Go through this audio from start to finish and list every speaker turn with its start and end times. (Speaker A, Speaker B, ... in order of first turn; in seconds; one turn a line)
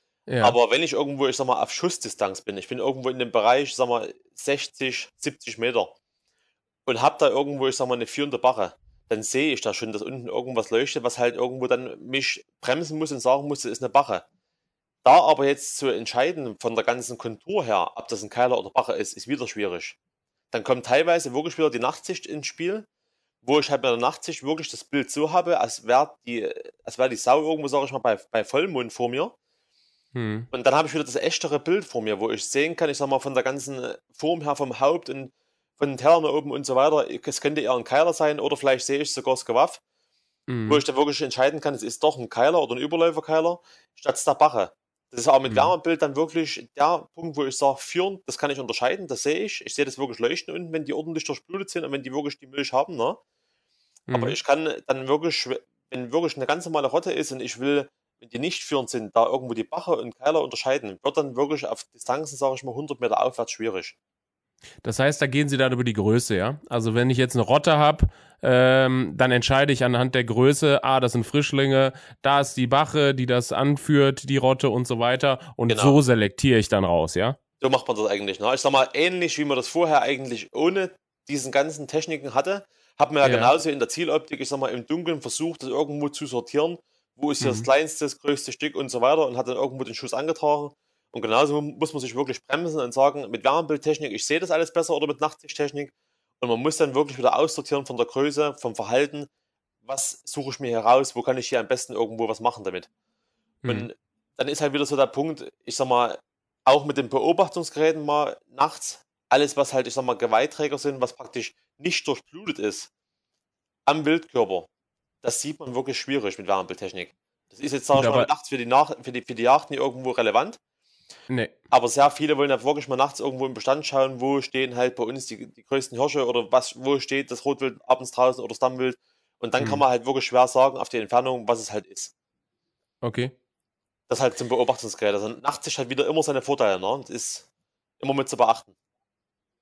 Speaker A: 0.3-0.6
Speaker B: 0.4-5.9
Speaker B: 6.8-14.2
Speaker B: 15.0-19.9
Speaker B: 20.5-22.9
Speaker B: 23.4-29.3
Speaker A: 30.1-30.5
Speaker B: 30.5-39.8
Speaker A: 40.5-40.8
Speaker B: 40.7-53.2
Speaker A: 45.5-45.7
Speaker A: 54.1-54.4
Speaker B: 54.1-64.0
Speaker A: 64.8-77.4
Speaker B: 75.7-76.0
Speaker B: 77.6-99.3
Speaker A: 83.2-83.5
Speaker A: 87.4-87.7
Speaker B: 99.8-102.9
Speaker B: 103.7-112.9
Speaker B: 113.8-114.7
Speaker B: 115.2-120.6
Speaker A: 117.9-118.3
Speaker B: 121.7-132.1
Speaker A: 133.0-133.3
Speaker B: 134.1-137.5
Speaker B: 138.0-138.7